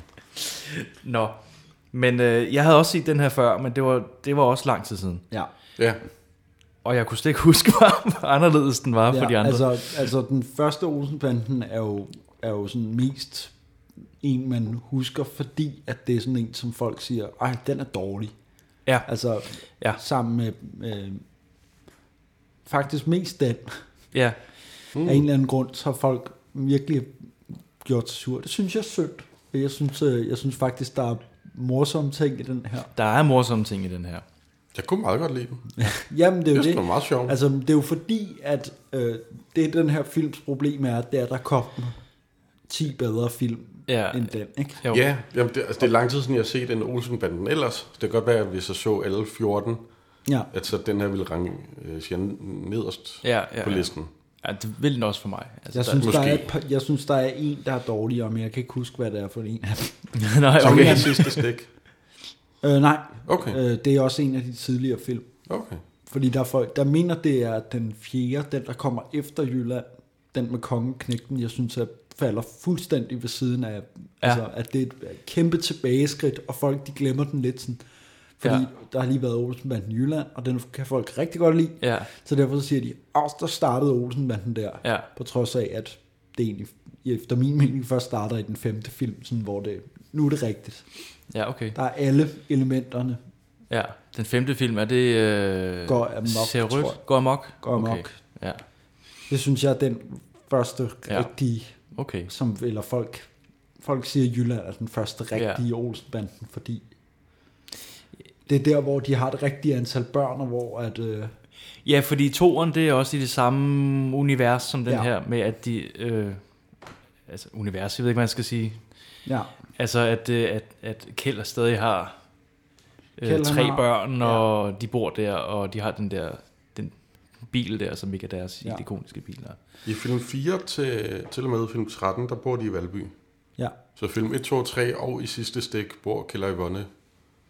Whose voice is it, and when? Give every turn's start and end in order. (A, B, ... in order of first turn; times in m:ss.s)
0:00.4-0:01.4 A
0:01.9-0:05.2 A
0:06.8-0:10.1 A
0:09.1-0:13.5 B
0:14.2-0:18.3 B
0:19.0-0:21.2 B
0:22.6-0:23.8 B
0:24.1-0:24.4 A
0:24.9-0:25.2 C
0:25.0-0:32.9 B
0:32.9-0:34.2 A
0:34.8-0:35.7 C
0:35.8-0:42.0 B
0:36.5-0:37.3 C
0:42.7-0:44.8 B
0:43.9-0:45.0 A
0:44.9-0:49.8 C
0:50.5-0:54.1 C
0:53.2-0:56.1 A
0:55.7-1:01.1 B
0:56.0-0:56.5 C
1:00.1-1:01.4 A
1:00.6-1:01.7 C
1:02.6-1:05.4 B
1:03.3-1:03.6 C
1:05.5-1:05.8 C
1:06.1-1:17.8 B
1:18.4-1:30.9 B
1:21.8-1:22.1 A
1:24.8-1:25.1 A
1:31.3-1:31.8 A
1:31.7-1:33.2 B
1:33.7-1:38.6 A
1:35.9-1:38.2 B
1:39.3-1:43.3 B
1:41.9-1:42.3 A
1:43.8-1:46.8 B
1:45.3-1:45.6 A
1:48.4-1:51.3 B
1:51.8-1:56.4 A
1:57.3-1:58.8 A
1:59.2-1:59.5 B
1:59.8-2:02.2 A
2:03.2-2:09.6 A
2:03.2-2:04.5 B
2:09.8-2:13.1 C
2:14.0-2:16.9 C